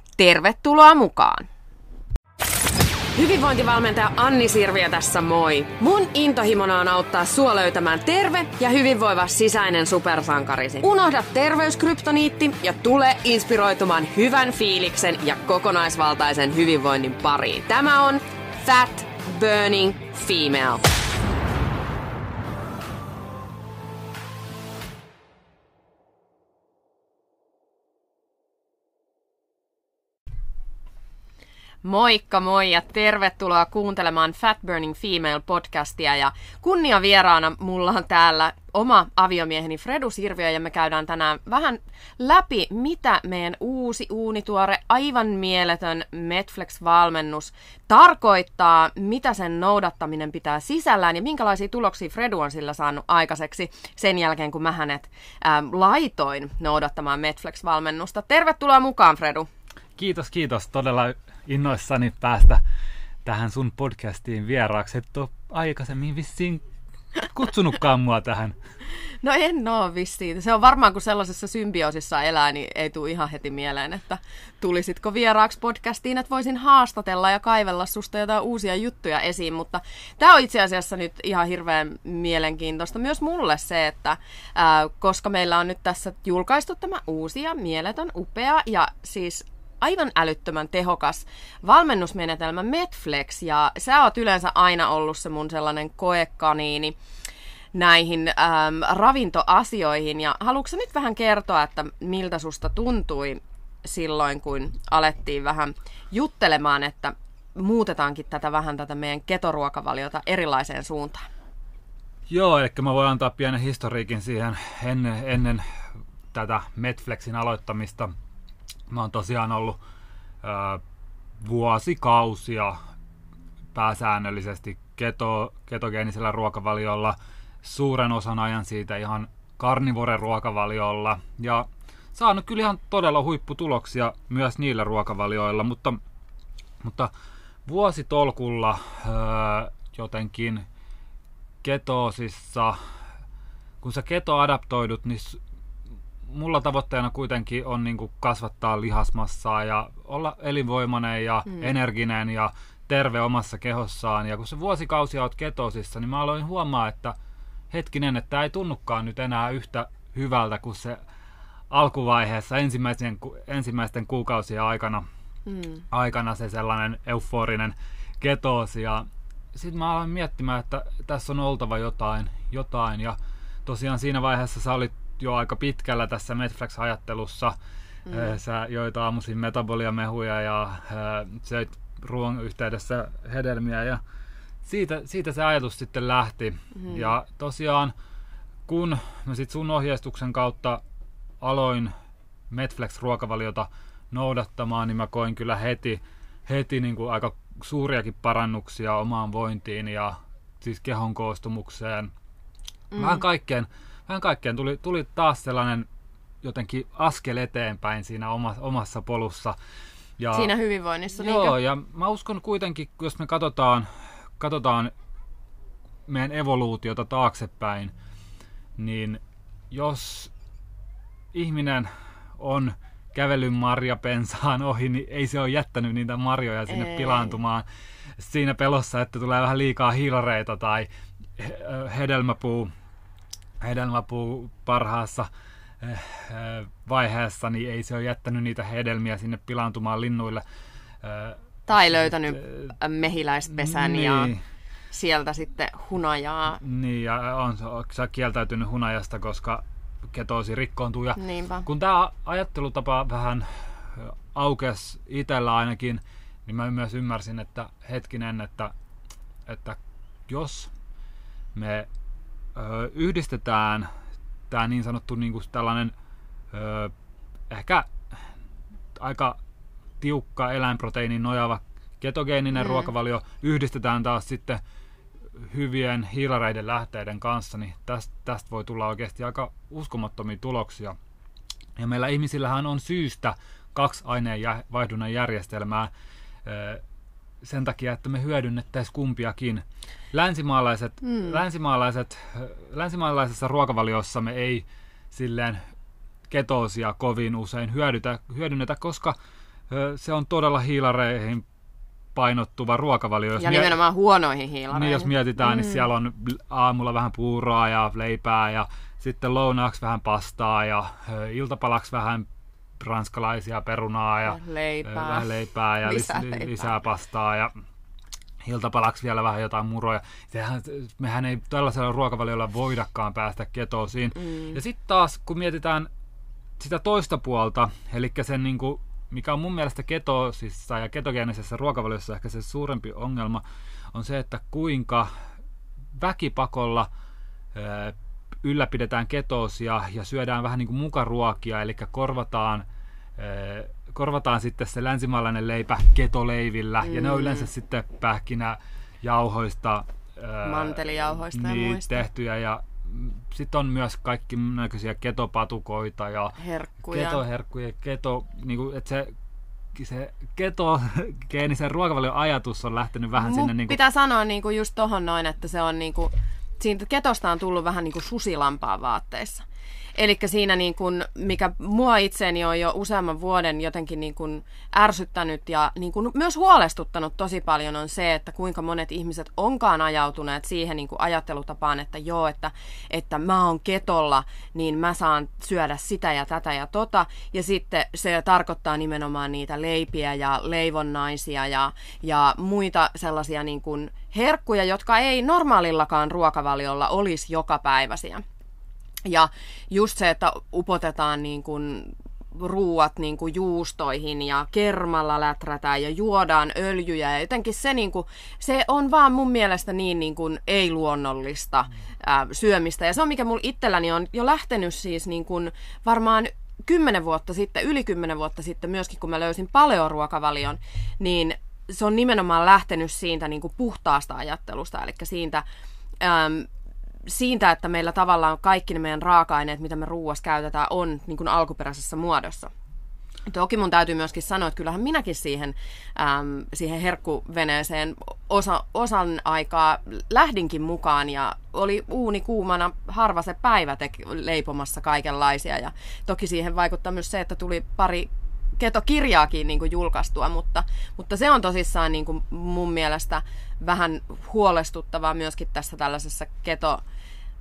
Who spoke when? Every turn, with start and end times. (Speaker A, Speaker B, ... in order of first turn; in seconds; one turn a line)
Speaker A: 0.2-1.5
Speaker A: 3.1-20.8
Speaker A: 31.8-59.5
Speaker B: 60.0-62.6
Speaker B: 63.2-66.7
Speaker B: 67.2-68.5
Speaker A: 69.2-97.0
Speaker A: 97.7-111.3
Speaker B: 112.3-115.8
Speaker B: 116.3-118.1
Speaker B: 118.9-119.8
Speaker B: 120.4-120.8
Speaker B: 121.4-122.8
Speaker B: 123.7-136.0
Speaker B: 136.8-137.1
Speaker B: 137.7-140.7
Speaker B: 141.6-142.8
Speaker B: 143.8-145.4
Speaker B: 146.3-157.2
Speaker B: 157.7-161.0
Speaker B: 161.7-165.0
Speaker A: 165.5-165.8
Speaker B: 165.9-177.6
Speaker B: 178.1-184.0
Speaker B: 184.6-187.9
Speaker B: 188.7-190.8
Speaker B: 191.4-191.9
Speaker B: 192.5-202.1
Speaker B: 202.9-205.9
Speaker A: 202.9-203.2
Speaker B: 206.4-209.6
Speaker B: 210.2-210.5
Speaker A: 210.3-211.6
Speaker B: 211.2-214.9
Speaker B: 216.1-217.9
Speaker B: 218.8-220.3
Speaker B: 221.3-227.7
Speaker A: 226.7-227.4
Speaker B: 228.2-232.7
Speaker B: 233.6-235.3
Speaker B: 235.8-240.4
Speaker B: 241.0-242.7
Speaker A: 241.7-244.3
Speaker B: 243.5-244.4
Speaker A: 244.9-246.6
Speaker B: 246.6-258.7
Speaker A: 251.2-251.7
Speaker B: 259.5-260.7
Speaker B: 261.6-261.9
Speaker B: 262.6-263.9
Speaker B: 264.5-265.9
Speaker B: 266.5-266.9
Speaker B: 267.5-267.9
Speaker B: 269.0-269.4
Speaker B: 270.0-274.6
Speaker B: 275.4-280.9
Speaker B: 281.8-285.9
Speaker B: 286.4-286.8
Speaker B: 287.4-295.6
Speaker B: 296.3-299.2
Speaker B: 299.7-301.4
Speaker B: 302.1-303.8
Speaker A: 303.4-305.8
Speaker B: 304.7-312.3
Speaker B: 312.8-317.5
Speaker A: 314.3-315.3
Speaker A: 315.8-316.7
Speaker B: 318.4-325.9
Speaker B: 326.6-335.1
Speaker B: 335.9-336.9
Speaker B: 337.5-342.6
Speaker B: 343.2-359.1
Speaker A: 346.8-347.5
Speaker A: 350.4-352.1
Speaker A: 356.4-357.2
Speaker B: 359.7-363.8
Speaker A: 363.2-369.4
Speaker A: 370.0-398.2
Speaker A: 399.1-425.4
Speaker A: 426.0-426.5
Speaker A: 427.1-432.5
Speaker A: 433.3-456.8